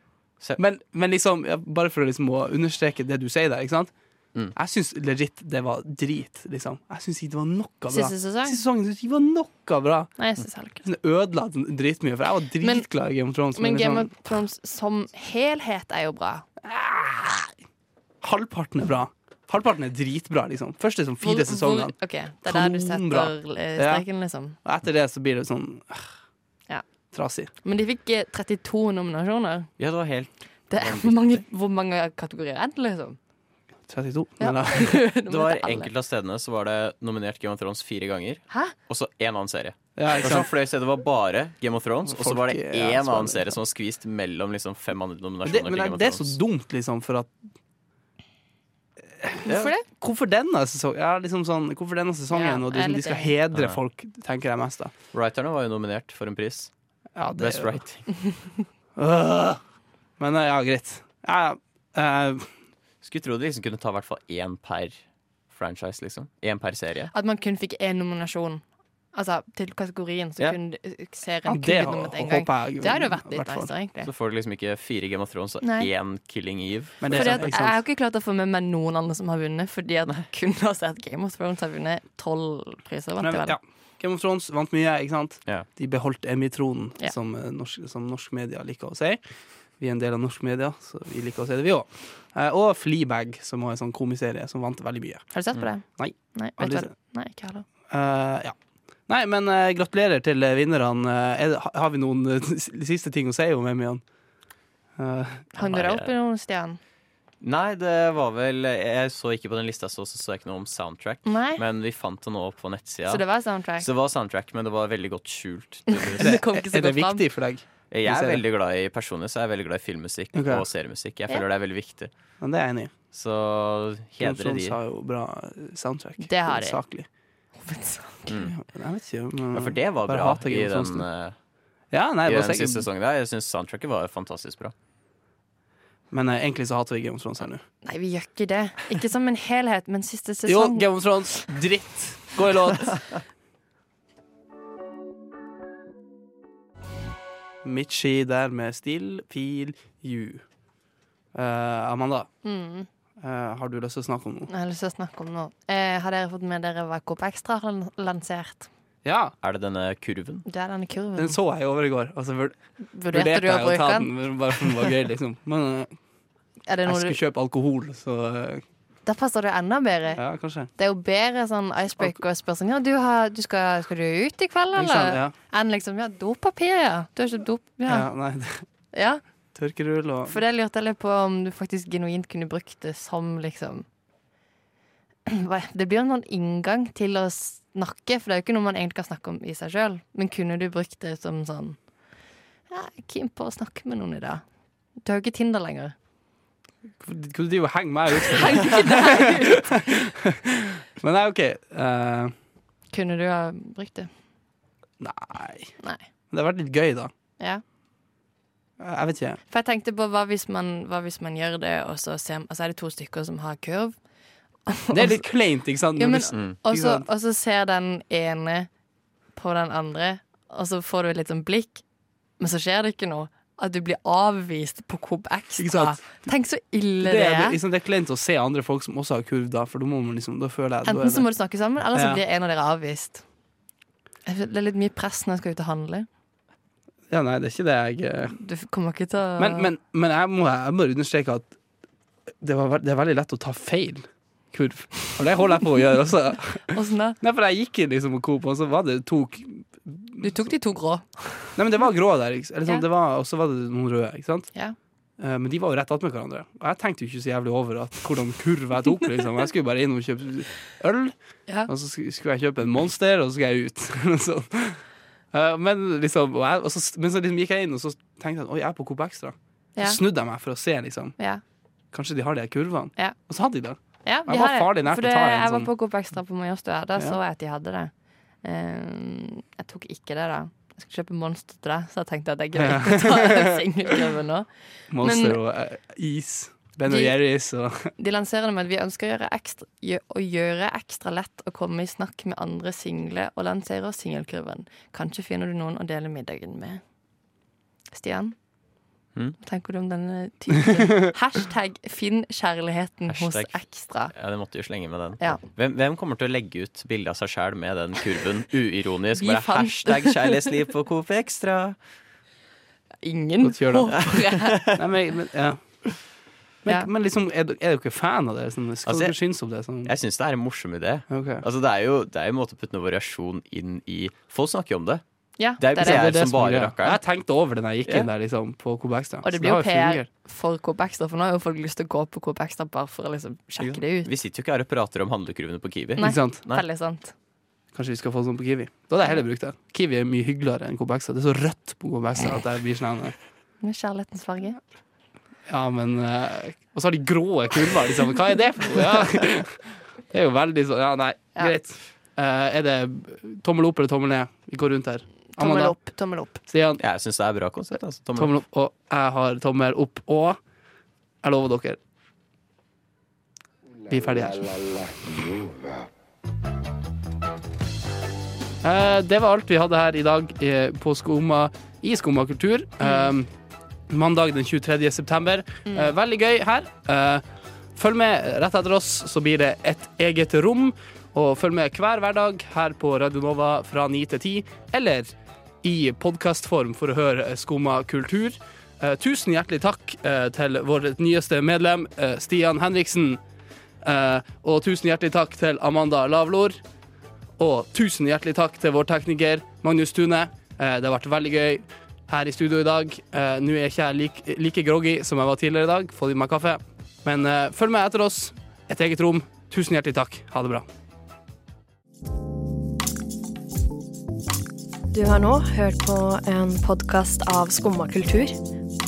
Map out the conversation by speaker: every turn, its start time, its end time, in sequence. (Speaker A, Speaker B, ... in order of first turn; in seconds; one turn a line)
Speaker A: 0.6-3.9
Speaker A: 4.5-10.2
Speaker B: 7.9-8.6
Speaker B: 10.2-10.8
Speaker A: 10.8-14.2
Speaker B: 12.6-12.9
Speaker B: 13.5-16.4
Speaker A: 16.6-17.5
Speaker A: 18.2-24.0
Speaker B: 21.2-24.6
Speaker A: 24.6-26.1
Speaker A: 27.1-27.5
Speaker B: 27.6-29.7
Speaker C: 29.8-31.4
Speaker B: 30.7-33.2
Speaker A: 33.9-34.9
Speaker B: 34.4-35.9
Speaker C: 34.8-46.4
Speaker A: 40.0-40.5
Speaker A: 42.1-43.6
Speaker A: 45.4-47.3
Speaker A: 49.2-54.9
Speaker B: 49.4-49.8
Speaker B: 52.3-53.3
Speaker C: 55.1-56.7
Speaker A: 57.1-57.8
Speaker C: 57.4-58.1
Speaker B: 58.1-58.5
Speaker A: 59.0-59.6
Speaker A: 60.2-62.5
Speaker C: 63.0-65.0
Speaker C: 65.5-67.1
Speaker B: 67.1-68.6
Speaker B: 69.1-74.1
Speaker A: 71.5-73.7
Speaker C: 74.0-77.5
Speaker B: 75.6-75.9
Speaker A: 77.0-77.8
Speaker B: 77.1-83.6
Speaker A: 83.2-89.2
Speaker A: 89.8-95.2
Speaker B: 95.3-97.6
Speaker A: 95.9-96.9
Speaker A: 97.9-98.5
Speaker A: 99.1-104.0
Speaker A: 105.0-105.5
Speaker B: 105.5-106.8
Speaker C: 105.6-106.1
Speaker C: 107.4-113.2
Speaker B: 111.2-111.6
Speaker B: 113.1-113.8
Speaker C: 113.8-116.4
Speaker B: 115.9-117.2
Speaker A: 116.2-118.4
Speaker C: 117.9-122.1
Speaker A: 120.3-120.6
Speaker A: 122.4-122.9
Speaker C: 123.1-124.8
Speaker A: 124.2-127.1
Speaker B: 126.2-126.8
Speaker B: 127.6-128.3
Speaker C: 128.3-128.5
Speaker A: 128.5-131.1
Speaker C: 129.5-131.3
Speaker A: 131.9-132.9
Speaker C: 132.2-134.7
Speaker A: 136.1-137.6
Speaker B: 137.8-140.9
Speaker A: 140.5-143.0
Speaker A: 147.6-150.4
Speaker A: 151.3-152.3
Speaker B: 152.4-152.9
Speaker A: 153.2-154.5
Speaker B: 154.5-158.7
Speaker A: 159.0-159.3
Speaker C: 159.4-160.4
Speaker B: 160.4-161.4
Speaker A: 161.2-165.9
Speaker B: 162.9-164.1
Speaker B: 166.7-167.2
Speaker A: 166.8-168.6
Speaker B: 169.1-170.2
Speaker A: 170.1-170.7
Speaker B: 170.8-178.1
Speaker A: 174.7-175.3
Speaker A: 177.9-178.6
Speaker B: 178.9-179.2
Speaker A: 179.5-180.4
Speaker B: 180.3-183.8
Speaker B: 185.2-191.8
Speaker B: 192.7-194.4
Speaker B: 195.0-195.9
Speaker A: 197.0-202.3
Speaker B: 198.1-199.7
Speaker B: 202.9-204.1
Speaker A: 205.0-205.7
Speaker A: 206.3-207.1
Speaker A: 208.8-209.4
Speaker B: 209.5-213.9
Speaker B: 214.7-215.2
Speaker A: 214.9-217.0
Speaker B: 216.0-218.7
Speaker B: 219.3-221.8
Speaker B: 222.4-227.6
Speaker A: 225.6-226.3
Speaker A: 227.0-231.2
Speaker B: 230.8-233.2
Speaker A: 231.9-232.2
Speaker B: 234.2-236.1
Speaker A: 237.1-238.4
Speaker B: 238.3-239.7
Speaker A: 239.4-241.5
Speaker A: 242.4-250.5
Speaker B: 246.7-247.2
Speaker B: 250.2-251.5
Speaker A: 251.6-254.5
Speaker A: 255.2-261.1
Speaker A: 261.7-264.8
Speaker A: 265.3-271.1
Speaker A: 271.9-275.7
Speaker B: 274.0-285.4
Speaker A: 282.6-283.9
Speaker A: 284.9-287.9
Speaker B: 286.9-287.1
Speaker B: 288.0-296.8
Speaker B: 297.9-298.3
Speaker B: 299.4-304.1
Speaker C: 303.1-311.8
Speaker B: 309.1-310.4
Speaker B: 313.0-314.6
Speaker A: 313.4-314.1
Speaker C: 314.2-314.7
Speaker A: 314.6-315.6
Speaker A: 316.6-319.9
Speaker C: 318.9-319.2
Speaker C: 319.8-325.0
Speaker A: 321.1-321.4
Speaker B: 325.4-326.1
Speaker C: 325.6-327.0
Speaker A: 325.8-330.1
Speaker B: 329.2-334.1
Speaker C: 333.6-336.6
Speaker A: 336.0-336.4
Speaker B: 336.0-337.1
Speaker A: 337.7-343.1
Speaker B: 343.6-344.6
Speaker A: 345.5-355.8
Speaker B: 355.4-356.4
Speaker A: 356.5-356.8
Speaker C: 356.8-358.3
Speaker A: 358.1-360.4
Speaker A: 361.2-361.8
Speaker D: 363.8-365.9
Speaker A: 363.9-364.5
Speaker A: 368.6-373.3
Speaker B: 372.8-373.1
Speaker A: 373.9-385.1
Speaker B: 375.6-375.9
Speaker A: 385.6-393.2
Speaker A: 393.8-396.6
Speaker A: 397.4-410.7
Speaker E: 414.9-418.4